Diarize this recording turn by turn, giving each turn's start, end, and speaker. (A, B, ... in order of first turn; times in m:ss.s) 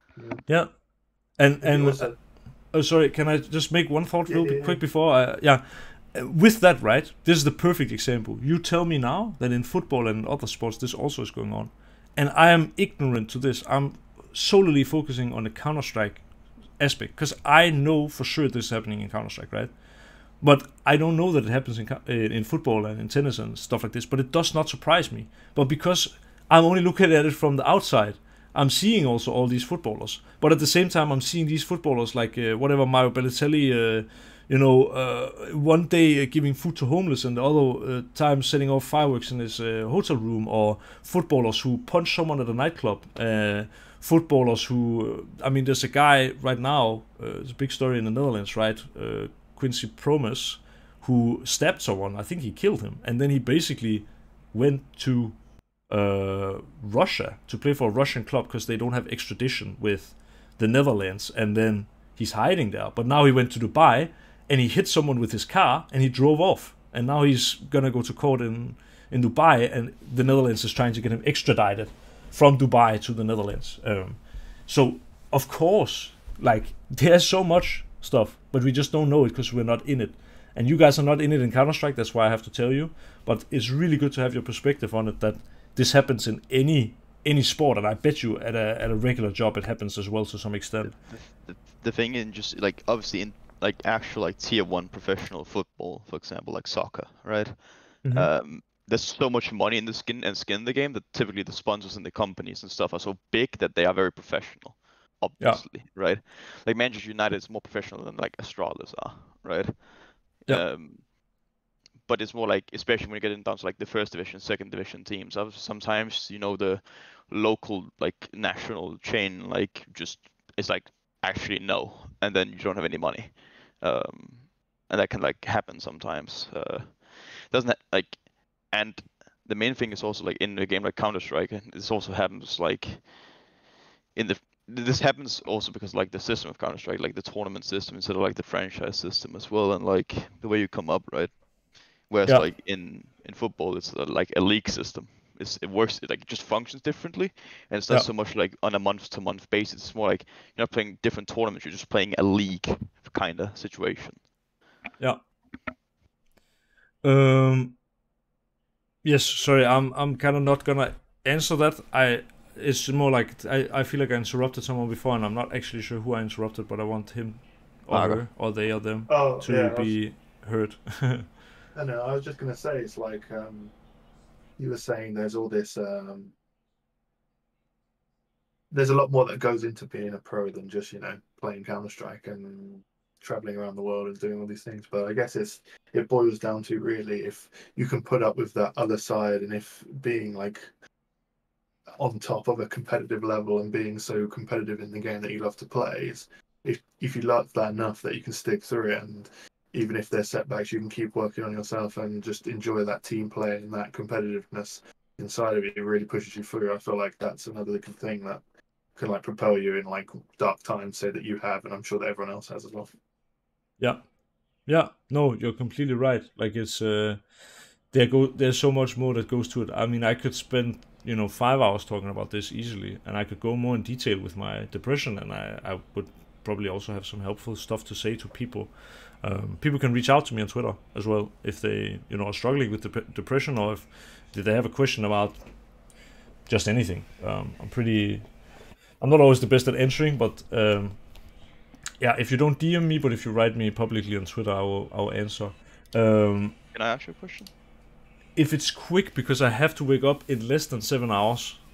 0:00.2-0:00.4 A
0:00.5-0:16.2 B
0:01.6-0:02.2 A
0:04.3-0:04.8 A
0:16.8-0:19.7 B
0:20.4-0:55.4 B
0:55.9-1:31.0 B
1:30.8-1:51.2 C
1:38.0-1:38.3 B
1:45.4-1:45.6 B
1:52.0-2:13.2 C
2:14.2-2:34.2 C
2:37.0-2:37.8 B
2:39.0-2:51.3 B
2:47.9-2:48.2 C
2:49.1-2:50.0 A
2:51.8-2:53.7 A
2:54.6-2:56.3 A
2:58.7-3:10.7 A
3:12.0-3:28.4 A
3:29.0-3:32.9 A
3:34.7-3:37.2 B
3:37.9-3:48.7 B
3:49.2-3:55.4 B
3:56.5-3:58.3 B
3:59.0-4:01.0 B
4:02.0-4:06.6 B
4:06.7-4:07.5 C
4:08.4-4:11.6 B